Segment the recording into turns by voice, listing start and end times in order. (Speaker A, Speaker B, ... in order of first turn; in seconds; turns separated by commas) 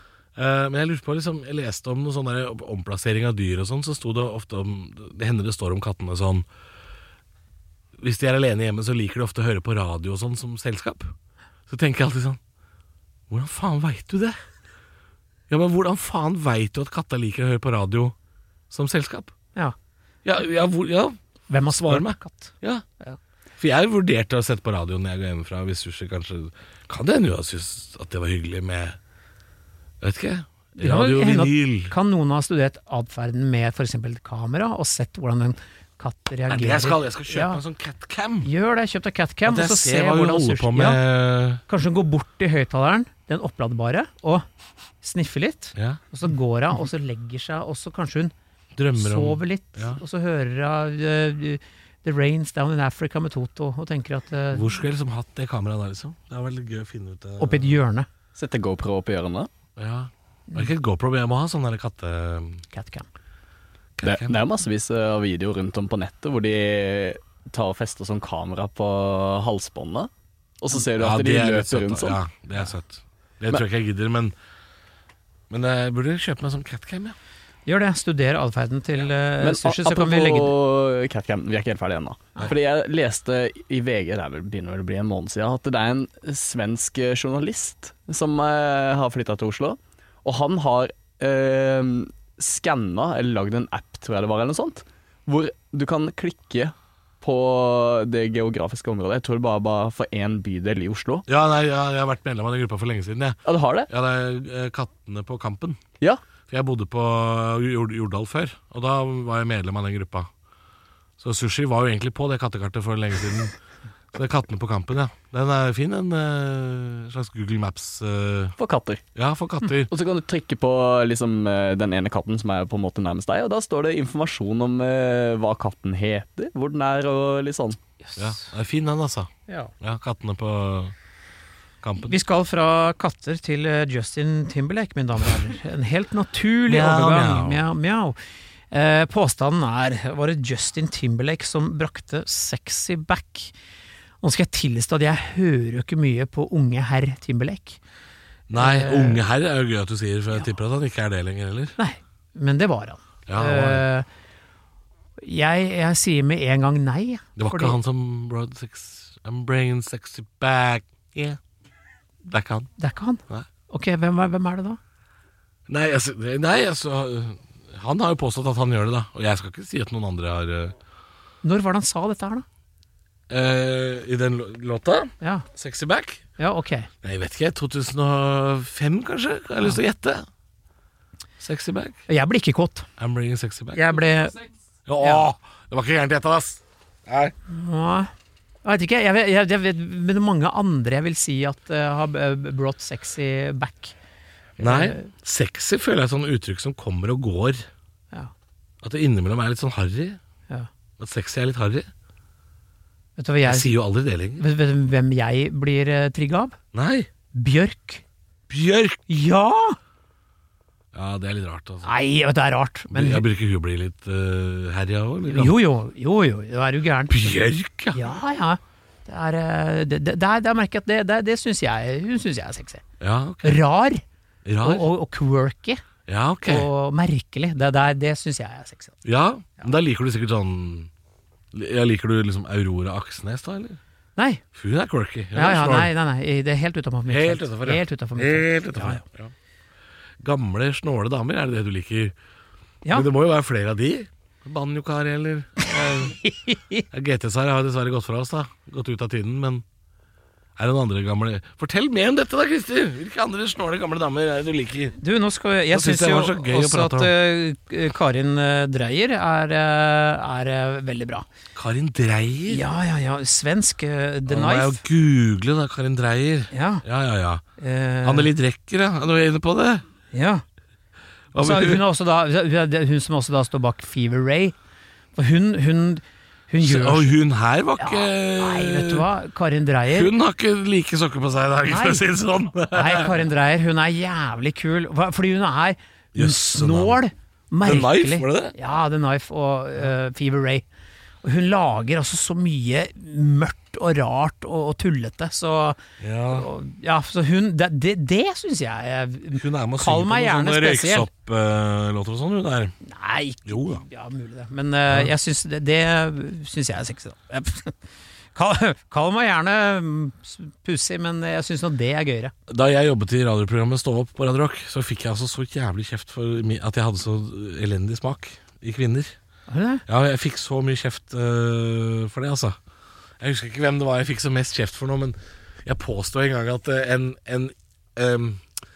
Speaker A: 0.3-6.5, Speaker A: 8.0-11.1, Speaker A: 11.7-12.4, Speaker A: 13.3-14.4, Speaker A: 15.5-18.1, Speaker A: 18.7-19.3, Speaker A: 20.2-21.2, Speaker B: 21.5-23.2, Speaker A: 21.7-22.8, Speaker A: 23.6-29.0, Speaker A: 30.0-31.9, Speaker B: 30.8-37.6, Speaker A: 36.5-38.5, Speaker B: 38.4-41.0, Speaker A: 39.4-41.6, Speaker B: 41.7-44.4, Speaker B: 45.0-48.3, Speaker A: 48.7-50.0, Speaker B: 48.9-54.6, Speaker A: 54.5-57.8, Speaker B: 57.4-58.1, Speaker C: 58.4-59.5, Speaker A: 59.8-62.6, Speaker B: 62.7-63.1, Speaker A: 64.0-64.4, Speaker C: 64.0-72.2, Speaker A: 70.9-74.3, Speaker A: 75.5-77.2, Speaker B: 77.7-80.5, Speaker C: 79.4-101.2, Speaker A: 101.3-105.8, Speaker C: 103.5-103.9, Speaker A: 106.5-110.3, Speaker A: 111.2-113.5, Speaker A: 114.1-118.5, Speaker C: 118.6-119.0, Speaker A: 119.1-119.9, Speaker C: 119.9-127.8, Speaker B: 128.1-128.4, Speaker A: 128.2-130.9, Speaker B: 129.5-129.7, Speaker A: 131.8-132.2, Speaker B: 132.0-138.2, Speaker A: 136.7-137.6, Speaker B: 138.7-143.5, Speaker B: 144.2-147.8, Speaker A: 148.5-151.8, Speaker B: 148.5-149.2, Speaker B: 151.8-154.1, Speaker A: 153.3-153.8, Speaker B: 155.2-157.8, Speaker A: 157.4-161.4, Speaker A: 162.2-162.7, Speaker B: 162.8-164.8, Speaker A: 165.7-170.7, Speaker B: 171.4-172.4, Speaker A: 173.3-176.2, Speaker B: 175.2-175.4, Speaker B: 176.4-176.9, Speaker A: 177.0-180.2, Speaker A: 181.4-182.0, Speaker B: 182.1-182.9, Speaker A: 183.0-183.8, Speaker B: 183.7-184.4, Speaker A: 184.8-187.3, Speaker B: 187.5-188.1, Speaker B: 188.6-193.9, Speaker B: 194.6-195.1, Speaker A: 194.6-197.7, Speaker A: 198.8-200.2, Speaker A: 201.0-201.9, Speaker B: 203.2-203.8, Speaker A: 203.4-204.4, Speaker B: 204.4-206.6, Speaker A: 206.7-207.1, Speaker B: 207.3-208.0, Speaker A: 208.5-209.0, Speaker B: 209.1-209.8, Speaker A: 210.9-211.9, Speaker B: 211.8-213.2, Speaker A: 212.9-215.5, Speaker B: 215.3-217.3, Speaker A: 217.1-218.0, Speaker B: 217.9-222.8, Speaker A: 223.0-223.6, Speaker B: 223.4-224.0, Speaker A: 224.4-224.9, Speaker B: 224.6-225.8, Speaker A: 226.1-226.7, Speaker B: 226.4-229.0, Speaker A: 229.0-230.9, Speaker A: 231.5-233.8, Speaker B: 234.2-234.4, Speaker A: 234.5-235.9, Speaker B: 235.3-239.0, Speaker A: 237.1-239.3, Speaker A: 240.2-242.1, Speaker A: 242.9-246.2, Speaker B: 245.6-246.8, Speaker A: 246.9-249.6, Speaker A: 250.6-255.0, Speaker B: 255.0-261.2, Speaker A: 255.7-257.1, Speaker A: 261.5-262.6, Speaker B: 262.5-264.8, Speaker A: 264.3-267.4, Speaker B: 266.5-266.8, Speaker B: 267.6-268.3, Speaker A: 268.0-269.8, Speaker B: 270.1-270.4, Speaker A: 271.3-271.8, Speaker B: 271.4-274.5, Speaker B: 275.1-277.2, Speaker A: 276.6-279.1, Speaker B: 277.8-280.1, Speaker A: 279.9-283.1, Speaker B: 281.7-282.0, Speaker B: 282.7-290.6, Speaker A: 286.1-287.0, Speaker A: 287.6-288.5, Speaker B: 291.2-301.1, Speaker A: 296.0-296.5, Speaker A: 299.3-302.7, Speaker B: 302.8-307.8, Speaker A: 303.4-303.8, Speaker B: 308.3-312.3, Speaker A: 312.5-319.1, Speaker B: 319.5-319.8, Speaker A: 319.9-322.6, Speaker A: 323.2-328.4